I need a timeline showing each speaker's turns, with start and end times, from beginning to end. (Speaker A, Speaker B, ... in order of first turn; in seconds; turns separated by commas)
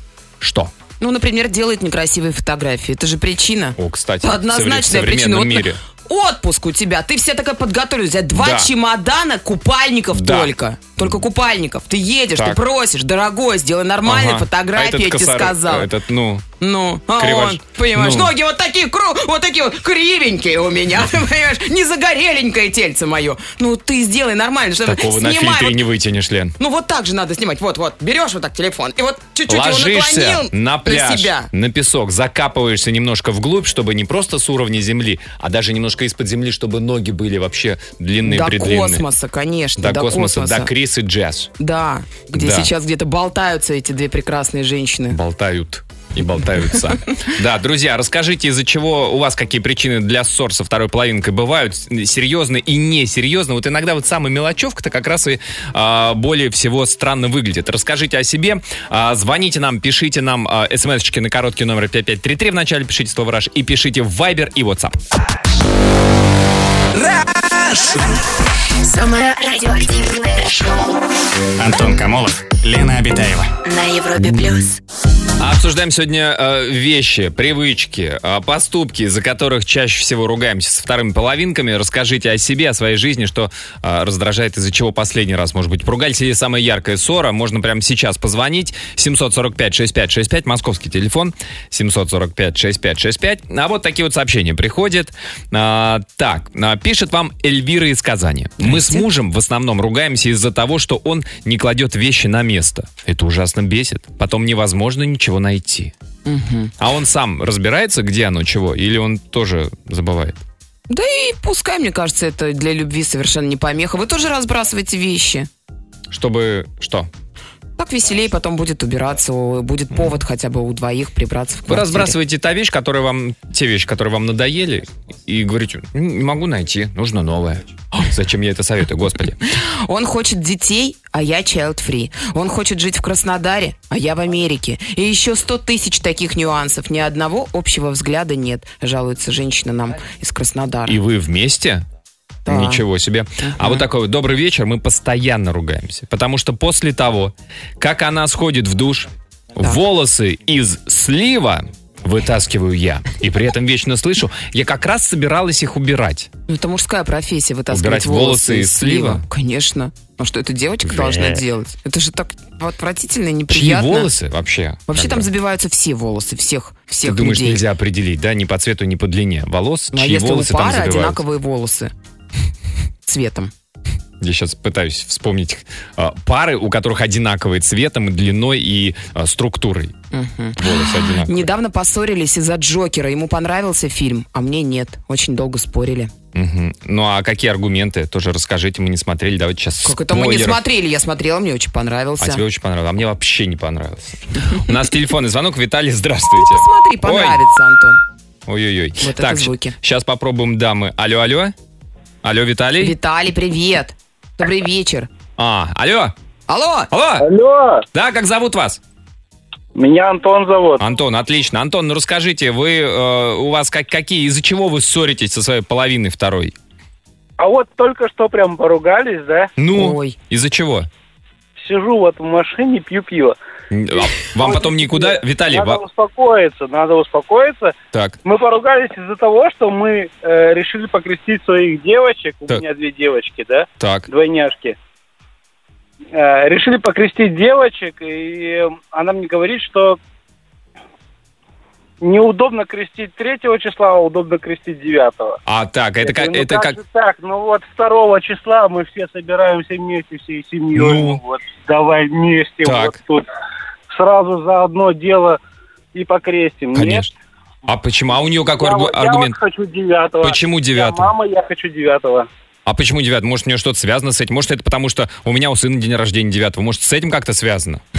Speaker A: 0.4-0.7, Speaker B: 1.0-15.9, Speaker A: 3.8-5.8, Speaker A: 8.3-8.7, Speaker A: 10.1-11.2, Speaker A: 12.3-12.6, Speaker A: 14.1-16.5, Speaker B: 16.6-25.8, Speaker A: 17.2-18.3, Speaker A: 24.9-26.6, Speaker B: 26.6-31.5, Speaker A: 29.5-39.0, Speaker B: 38.2-40.7, Speaker A: 39.8-41.5, Speaker B: 41.6-45.2, Speaker A: 42.3-42.7, Speaker A: 45.1-65.0, Speaker C: 68.8-70.9, Speaker D: 71.6-73.5, Speaker C: 73.6-74.8, Speaker A: 75.4-105.9, Speaker B: 98.6-99.1, Speaker B: 106.3-106.7, Speaker A: 106.8-110.4, Speaker B: 110.9-115.5, Speaker A: 116.1-117.1, Speaker B: 117.8-122.2, Speaker A: 121.7-129.4, Speaker B: 129.6-141.0, Speaker A: 140.9-141.8, Speaker B: 142.5-142.8, Speaker A: 142.5-156.3, Speaker B: 143.4-143.8, Speaker B: 156.5-164.1, Speaker A: 157.7-159.2, Speaker A: 160.8-161.4, Speaker A: 163.5-165.3, Speaker B: 164.9-167.7, Speaker A: 167.1-171.2, Speaker B: 169.9-171.9, Speaker B: 173.1-173.5, Speaker A: 174.2-180.0, Speaker B: 180.1-186.1, Speaker A: 180.6-181.5, Speaker A: 186.3-190.6, Speaker B: 189.8-192.4, Speaker A: 192.2-197.4, Speaker B: 196.4-198.0, Speaker A: 198.5-201.5, Speaker B: 199.0-199.8, Speaker A: 202.2-202.9, Speaker B: 202.8-205.1, Speaker A: 205.4-206.2, Speaker B: 206.5-206.9, Speaker A: 206.9-207.3, Speaker E: 207.2-207.8, Speaker A: 207.9-208.8, Speaker E: 209.8-210.8, Speaker A: 210.8-216.6, Speaker E: 217.4-219.5, Speaker A: 219.6-220.9, Speaker B: 219.7-220.2, Speaker E: 221.6-223.4, Speaker A: 223.7-225.8, Speaker E: 224.2-227.7, Speaker E: 228.2-234.8, Speaker A: 233.8-234.1, Speaker E: 236.1-240.0, Speaker E: 242.0-245.4, Speaker A: 245.5-246.8, Speaker E: 246.0-253.3, Speaker A: 250.8-251.2, Speaker A: 252.6-252.9, Speaker E: 253.9-255.4, Speaker E: 255.9-257.1, Speaker A: 256.7-257.1, Speaker A: 257.7-259.4, Speaker E: 258.6-262.3, Speaker A: 260.2-261.1, Speaker A: 262.7-267.8